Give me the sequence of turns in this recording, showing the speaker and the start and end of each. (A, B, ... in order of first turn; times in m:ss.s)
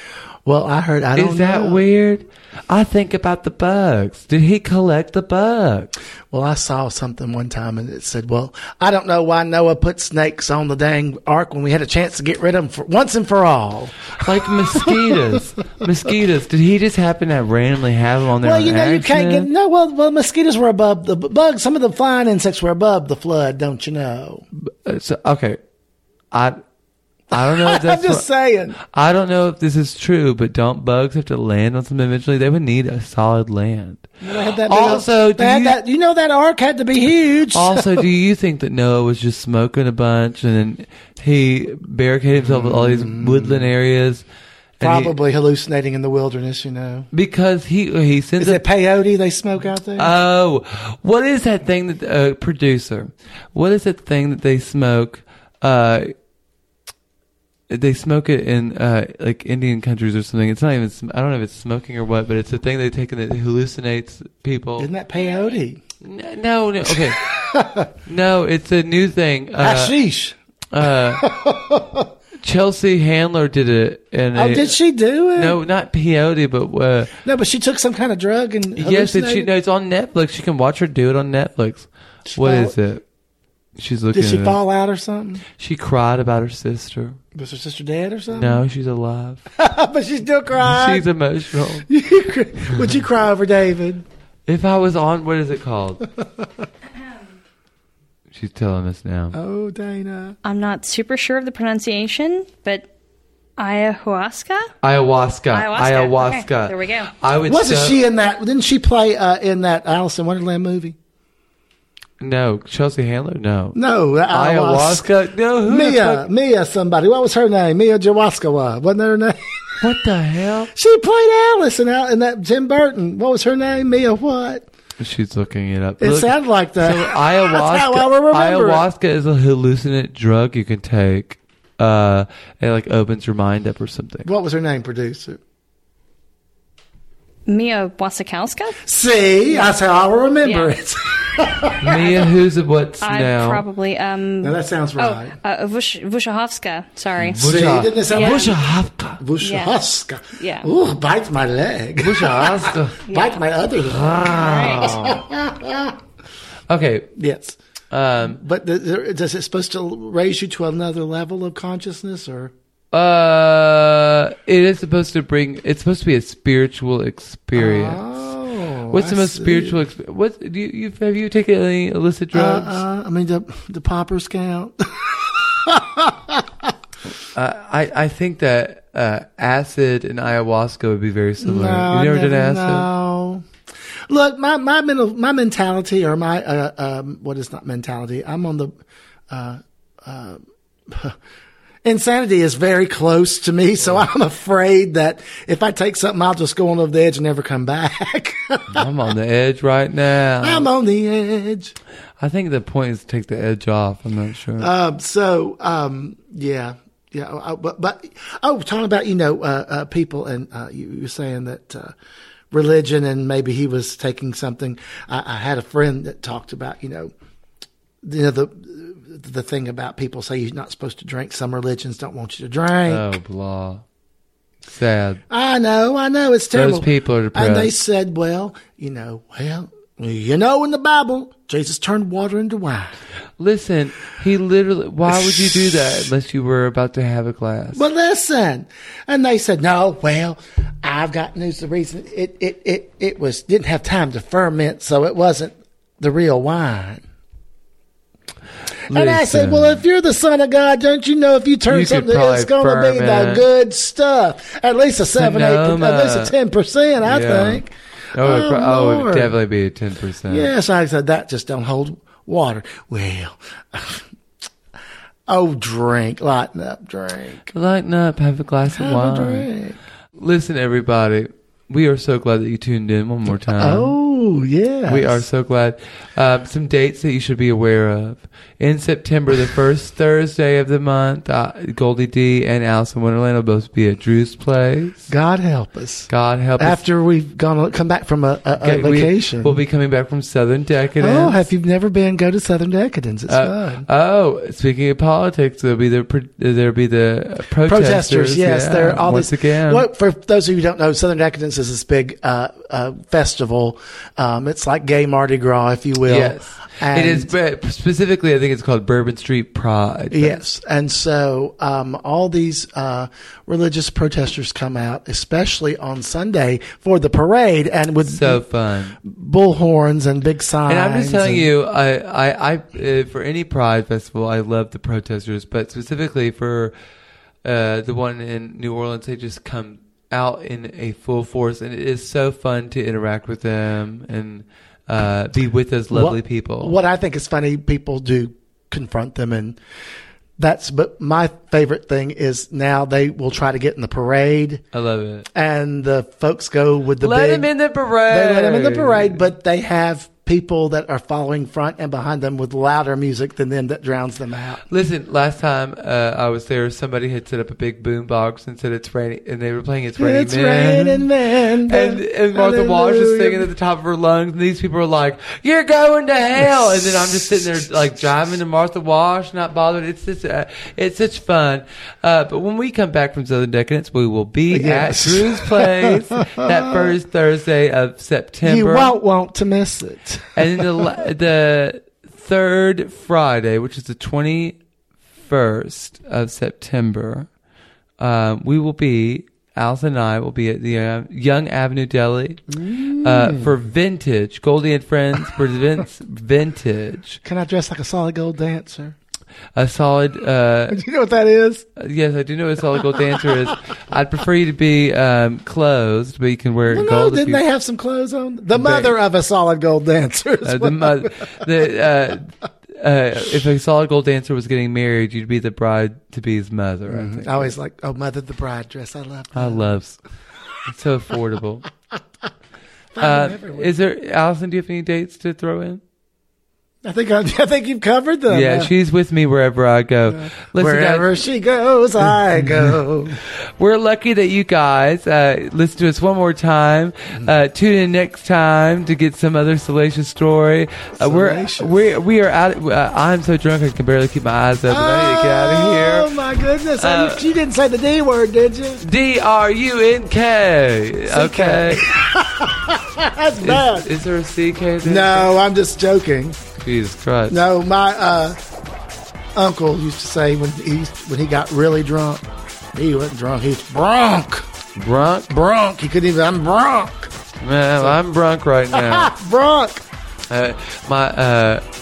0:00.4-0:01.8 A
0:01.2-0:05.9 B
0:06.3-0:14.1 A
0:14.2-0:19.5 B
0:14.7-0:15.1 A
0:18.4-0:24.4 A
0:24.6-0:25.6 B
0:26.3-0:26.6 B
0:27.3-0:28.2 B
0:27.3-0:28.8 A
0:28.8-0:34.1 B
0:34.2-0:38.0 A
0:34.6-0:35.8 B
0:37.5-0:44.2 B
0:42.4-0:43.7 A
0:44.8-0:45.1 B
0:44.8-0:47.1 A
0:47.1-0:48.6 B
0:48.4-0:50.1 A
0:50.0-0:56.1 B
0:57.7-1:04.9 B
1:04.8-1:05.8 A
1:06.0-1:07.2 B
1:06.9-1:07.9 A
1:08.0-1:10.0 B
1:09.6-1:12.1 A
1:10.7-1:11.2 B
1:12.4-1:14.8 B
1:14.4-1:15.6 A
1:15.4-1:17.1 B
1:17.2-1:19.5 A
1:18.8-1:23.0 B
1:22.3-1:22.8 A
1:23.8-1:24.6 B
1:24.1-1:25.4 A
1:25.6-1:27.2 B
1:27.3-1:28.6 A
1:28.3-1:29.4 B
1:29.5-1:31.1 A
1:30.6-1:31.9 B
1:31.9-1:34.0 A
1:34.5-1:36.0 B
1:36.2-1:36.5 A
1:38.3-1:39.4 B
1:39.3-1:40.4 A
1:40.4-1:42.9 C
1:43.6-1:44.7 C
1:44.8-1:48.0 B
1:45.5-1:47.1 C
1:47.5-1:51.0 A
1:52.2-1:53.8 B
1:53.7-1:55.1 A
1:54.3-1:56.2 B
1:55.6-1:59.8 A
1:59.8-2:00.7 B
2:00.7-2:04.7 A
2:05.0-2:14.3 B
2:06.0-2:08.8 A
2:14.2-2:15.4 A
2:17.5-2:18.8 C
2:18.8-2:22.2 A
2:19.5-2:19.8 C
2:20.4-2:20.8 C
2:21.8-2:23.6 B
2:23.0-2:27.4 C
2:24.4-2:25.4 A
2:27.2-2:29.2 B
2:27.4-2:28.6 A
2:28.1-2:28.5 C
2:29.2-2:36.0 A
2:29.4-2:29.8 C
2:30.4-2:30.7 C
2:32.0-2:33.0 B
2:33.1-2:33.4 C
2:34.2-2:35.0 C
2:34.2-2:35.2 B
2:36.7-2:37.1 B
2:37.2-2:37.6 A
2:37.9-2:38.4 B
2:38.2-2:42.5 A
2:42.9-2:48.0 B
2:47.5-2:49.8 A
2:48.9-2:52.8 B
2:52.3-2:56.7 A
2:57.3-3:02.9 B
3:01.4-3:03.4 A
3:04.1-3:08.8 A
3:09.3-3:11.2 A
3:11.8-3:18.9 A
3:18.7-3:20.7 B
3:20.4-3:21.7 A
3:22.2-3:24.7 B
3:24.6-3:31.9 A
3:32.5-3:37.1 A
3:38.0-3:43.1 A
3:42.8-3:43.8 B
3:44.7-3:45.2 B
3:45.3-3:52.9 A
3:46.5-3:47.7 B
3:53.4-3:57.8 B
3:55.1-3:56.0 A
3:57.7-4:07.0 A
4:08.9-4:09.8 B
4:08.9-4:19.4 A
4:11.7-4:13.4 B
4:15.1-4:16.3 B
4:17.0-4:20.5 B
4:20.3-4:24.0 A
4:25.3-4:27.5 A
4:27.5-4:29.5 B
4:28.7-4:29.8 A
4:30.2-4:33.9 B
4:33.3-4:35.2 A
4:34.9-4:45.1 B
4:45.1-4:49.6 A
4:46.1-4:46.8 B
4:48.6-4:51.4 B
4:51.0-4:53.8 A
4:53.3-4:59.8 B
4:57.6-5:07.3 A
5:06.0-5:10.4 B
5:10.1-5:18.4 A
5:18.0-5:19.0 B
5:19.0-5:21.5 A
5:20.7-5:26.7 B
5:27.4-5:36.8 B
5:35.9-5:39.6 A
5:40.4-5:44.6 A
5:44.7-5:45.2 B
5:45.3-5:47.5 A
5:47.0-5:49.2 B
5:48.1-5:54.6 A
5:54.7-6:01.1 B
6:00.0-6:03.5 A
6:01.6-6:18.9 B
6:06.4-6:07.4 A
6:14.5-6:16.9 A
6:18.4-6:20.9 A
6:20.4-6:24.6 B
6:25.2-6:27.3 B
6:28.0-6:32.4 B
6:32.5-6:33.6 A
6:33.0-6:37.2 B
6:37.2-6:39.0 A
6:39.5-6:40.8 B
6:40.7-6:41.6 A
6:41.7-6:47.4 B
6:42.8-6:43.5 A
6:46.7-6:51.5 A
6:48.5-6:48.9 B
6:50.4-6:57.5 B
6:56.9-6:59.7 A
6:59.3-7:00.0 B
7:00.6-7:01.7 B
7:02.9-7:03.7 A
7:03.0-7:05.8 B
7:06.8-7:08.7 A
7:08.3-7:11.2 B
7:10.1-7:13.2 A
7:12.4-7:12.7 B
7:13.6-7:26.2 B
7:21.0-7:21.7 A
7:24.7-7:28.8 A
7:26.8-7:27.3 B
7:28.8-7:32.0 B
7:31.1-7:33.9 A
7:33.4-7:35.3 B
7:34.8-7:36.4 A
7:36.6-7:37.4 B
7:37.3-7:38.4 A
7:39.3-7:44.5 A
7:44.8-7:45.3 B
7:45.3-7:47.1 A
7:47.4-7:49.1 B
7:48.7-7:49.8 A
7:50.3-7:51.6 B